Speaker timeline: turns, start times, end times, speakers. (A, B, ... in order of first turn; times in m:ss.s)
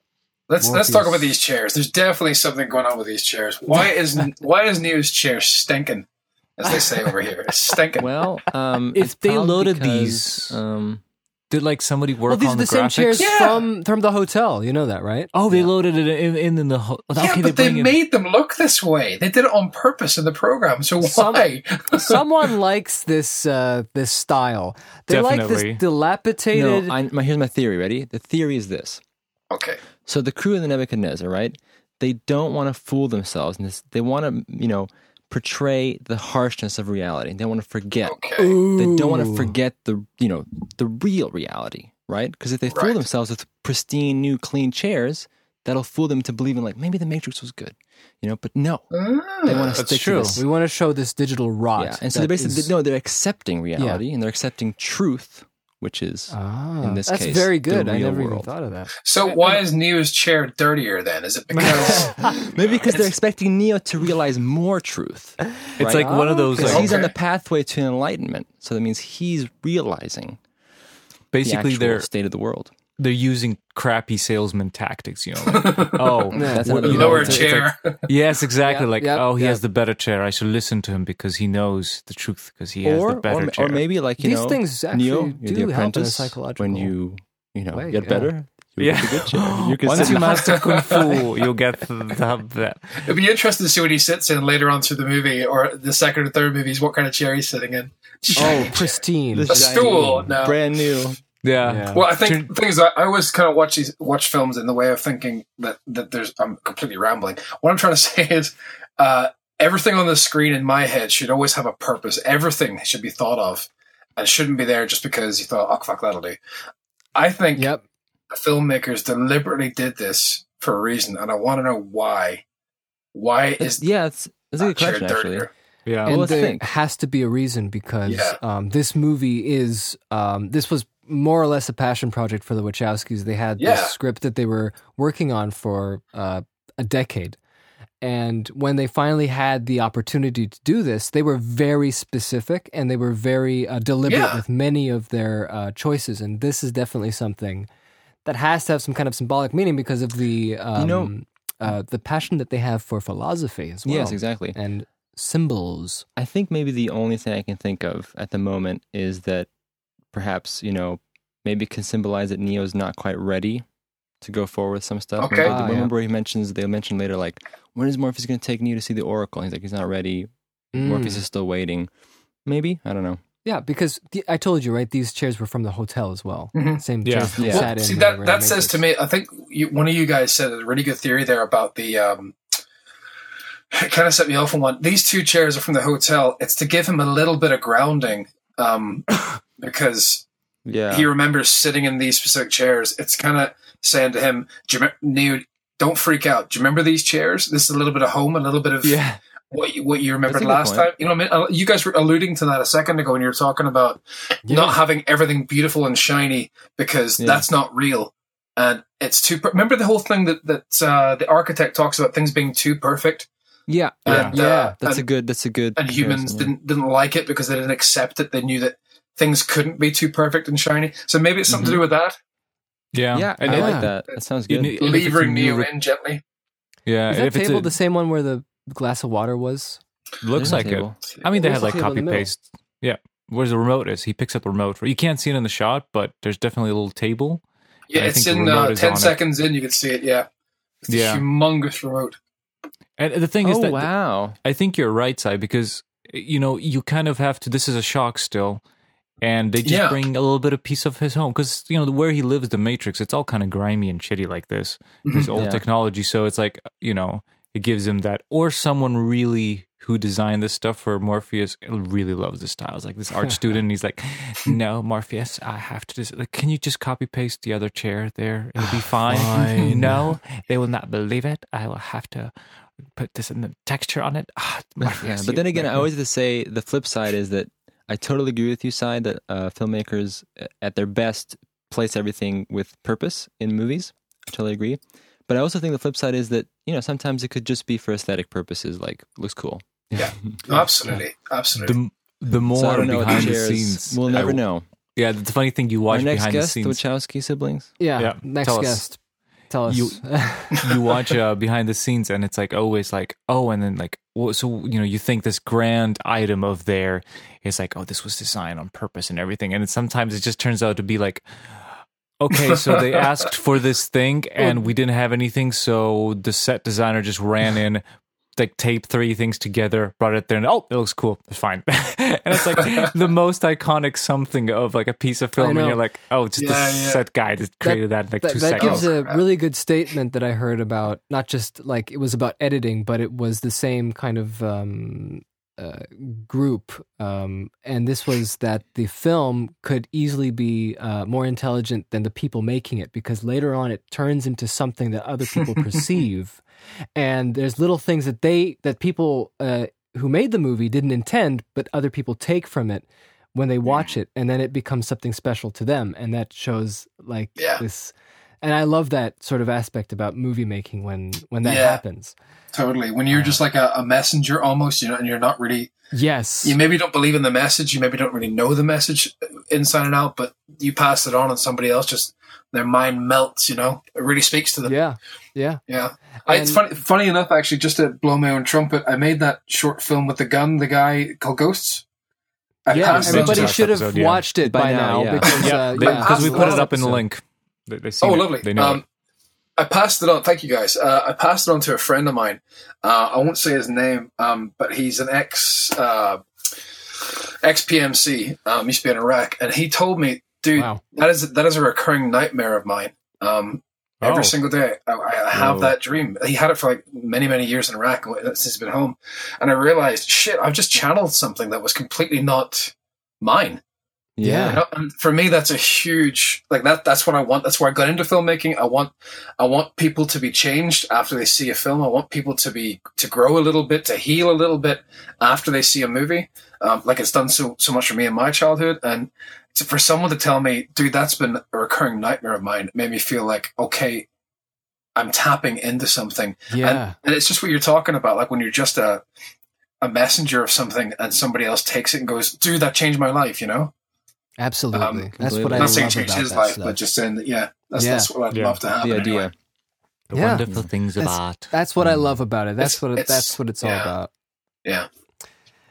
0:00.5-0:08.1 A
0:00.6-0:01.4 B
0:08.0-0:11.0 C
0:08.9-0:10.6 D
0:11.5-0:13.3 D
0:12.3-0:15.3 B
0:13.2-0:13.6 A
0:15.3-0:18.0 D
0:17.2-0:22.2 A
0:21.0-0:27.0 B
0:25.1-0:25.8 D
0:26.5-0:29.0 C
0:29.5-0:29.8 A
0:30.0-0:48.9 C
0:38.0-0:38.6 A
0:38.4-0:39.5 B
0:42.7-0:43.0 A
0:48.9-0:49.8 A
0:49.4-0:50.4 C
0:49.7-0:50.4 D
0:50.4-0:52.7 B
0:51.8-0:58.5 C
0:53.8-0:54.0 B
0:56.3-0:59.6 B
0:59.0-1:03.1 A
1:02.3-1:10.4 C
1:05.8-1:06.9 D
1:05.8-1:06.9 B
1:06.6-1:07.1 A
1:11.3-1:12.1 D
1:11.4-1:12.7 C
1:13.0-1:23.8 D
1:15.4-1:18.0 A
1:16.3-1:17.3 B
1:16.4-1:17.6 C
1:18.6-1:19.6 B
1:22.8-1:30.6 C
1:24.2-1:26.9 B
1:27.7-1:28.3 B
1:28.8-1:33.0 D
1:29.9-1:31.3 A
1:33.0-1:39.0 A
1:38.3-1:40.0 B
1:38.4-1:38.7 C
1:39.3-1:41.2 C
1:39.5-1:40.6 A
1:41.4-1:42.5 D
1:41.6-1:42.0 B
1:41.9-1:56.4 A
1:57.1-1:57.7 A
1:57.5-1:57.8 B
1:58.3-2:02.4 A
2:03.1-2:03.8 A
2:03.6-2:05.5 C
2:04.6-2:05.5 A
2:05.8-2:06.2 D
2:06.0-2:06.6 C
2:06.0-2:17.4 B
2:08.0-2:08.4 A
2:13.6-2:13.9 A
2:18.0-2:27.7 B
2:24.0-2:24.4 A
2:28.2-2:36.0 B
2:30.7-2:31.1 C
2:33.8-2:34.6 C
2:36.2-2:39.5 C
2:40.1-2:43.6 C
2:44.2-2:51.9 C
2:45.2-2:45.5 A
2:45.4-2:45.9 B
2:50.7-2:51.2 B
2:52.4-2:53.2 C
2:53.4-2:58.8 B
2:56.5-2:56.8 A
2:57.0-2:57.4 D
2:57.4-2:57.7 C
2:57.4-3:02.4 A
3:03.7-3:10.2 A
3:10.6-3:11.1 C
3:10.9-3:19.0 A
3:18.8-3:19.2 D
3:19.5-3:33.3 A
3:20.2-3:20.9 C
3:24.4-3:24.8 B
3:27.2-3:27.4 C
3:33.7-3:36.5 C
3:34.0-3:34.3 D
3:34.0-3:35.0 A
3:34.2-3:34.8 B
3:35.8-3:42.2 A
3:41.5-3:41.8 C
3:42.9-3:44.0 D
3:43.1-3:44.8 C
3:43.5-3:43.9 B
3:44.5-3:45.7 D
3:44.8-3:46.2 A
3:46.8-3:47.7 D
3:47.1-3:49.8 B
3:50.2-3:59.2 D
3:50.3-3:51.0 C
3:51.4-3:52.3 B
3:57.9-4:00.3 A
4:00.8-4:02.2 A
4:00.9-4:01.2 D
4:03.0-4:03.9 D
4:03.4-4:04.4 C
4:04.4-4:08.6 D
4:09.2-4:32.3 D
4:09.6-4:10.0 A
4:15.0-4:15.3 A
4:15.3-4:15.6 C
4:29.0-4:30.1 B
4:33.0-4:35.9 D
4:34.8-4:50.1 C
4:50.0-4:51.8 A
4:51.6-4:54.4 D
4:52.5-4:54.6 C
4:55.0-4:56.8 D
4:55.9-4:57.7 C
4:57.8-4:59.0 B
4:58.0-4:58.8 D
4:59.5-5:00.6 B
4:59.7-5:17.8 D
5:12.3-5:13.0 A
5:18.4-5:28.9 D
5:25.4-5:25.8 B
5:26.4-5:27.0 A
5:27.6-5:46.4 B
5:28.6-5:29.2 A
5:46.9-6:02.1 B
5:57.4-5:57.6 A
6:01.4-6:01.8 A
6:02.5-6:05.7 A
6:03.1-6:03.4 B
6:05.9-6:06.6 B
6:06.4-6:14.8 A
6:14.6-6:15.6 B
6:15.7-6:21.8 A
6:16.2-6:16.6 B
6:22.6-6:23.6 A
6:22.7-6:27.0 B
6:22.8-6:24.2 D
6:24.4-6:25.6 C
6:25.2-6:28.8 D
6:25.8-6:26.7 A
6:28.0-6:28.8 A
6:29.6-6:36.2 A
6:37.0-6:53.6 A
6:40.5-6:40.8 B
6:44.0-6:44.3 D
6:45.3-6:45.7 C
6:54.2-6:54.6 C
6:54.2-6:54.6 B
6:54.4-7:14.1 A
7:15.0-7:19.0 A
7:16.5-7:16.9 B
7:19.8-7:23.7 A
7:24.4-7:26.8 B
7:24.7-7:29.3 A
7:25.2-7:25.9 C
7:27.8-7:28.1 B
7:28.3-7:28.6 D
7:28.8-7:29.3 C
7:30.1-7:31.5 D
7:30.1-7:34.1 B
7:32.6-7:33.9 A